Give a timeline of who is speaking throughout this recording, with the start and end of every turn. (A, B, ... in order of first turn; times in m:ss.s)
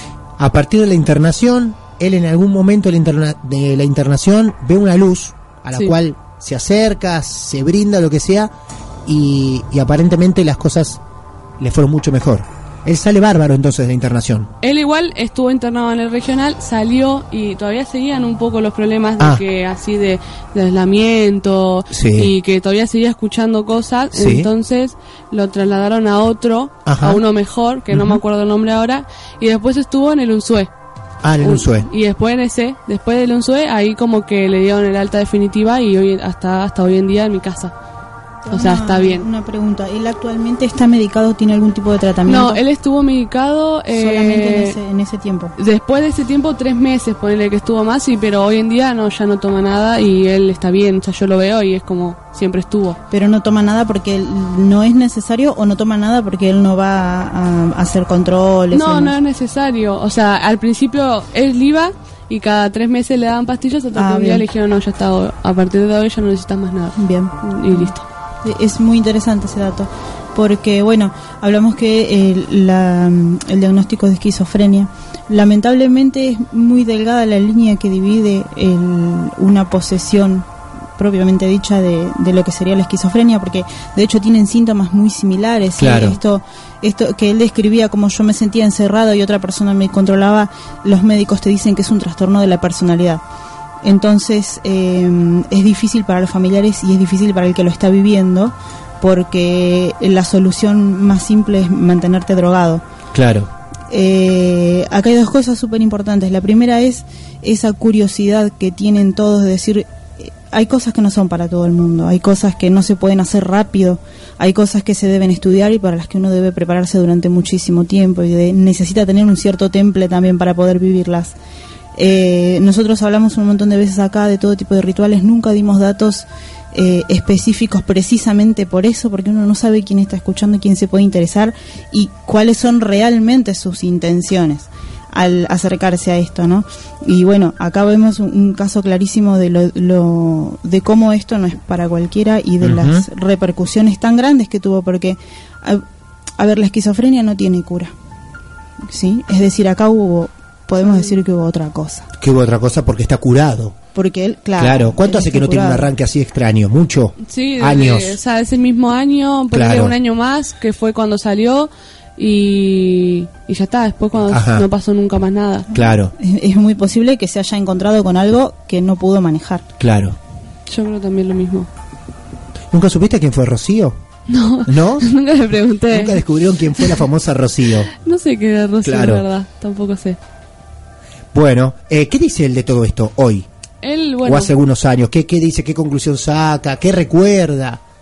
0:00.4-0:08.5 A
0:09.1-0:11.0 A
0:11.6-0:14.5 A
0:14.6-0:30.7 B
0:21.9-0:22.3 A
0:24.1-0:24.5 A
0:26.9-0:27.2 A
0:27.9-0:28.2 A
0:31.2-0:31.9 A
0:31.4-0:37.7 B
0:38.4-0:42.6 C
0:38.5-0:39.3 B
0:42.3-0:44.8 B
0:43.9-0:45.5 C
0:45.6-0:53.0 B
0:53.1-0:59.2 C
0:58.7-1:08.1 B
1:04.0-1:04.5 C
1:07.0-1:07.9 C
1:08.4-1:33.2 C
1:25.8-1:26.2 A
1:33.8-1:42.8 C
1:43.1-1:43.5 A
1:43.9-2:01.4 C
2:02.0-2:25.8 C
2:22.6-2:23.1 A
2:26.4-2:27.9 C
2:28.9-2:32.1 C
2:30.8-2:31.1 B
2:32.2-2:33.8 A
2:34.0-2:35.9 C
2:34.6-2:38.2 A
2:37.2-2:45.7 B
2:39.5-2:39.9 A
2:44.3-2:44.7 A
2:45.7-2:49.6 C
2:45.7-2:46.1 A
2:49.8-2:50.2 A
2:50.7-2:51.7 B
2:52.7-2:54.0 A
2:54.3-2:56.2 B
2:54.7-2:55.1 A
2:55.9-2:57.9 A
2:56.8-2:57.0 B
2:57.9-3:00.2 B
2:58.8-2:59.2 A
3:01.3-3:03.5 A
3:03.8-3:04.5 B
3:04.2-3:07.8 A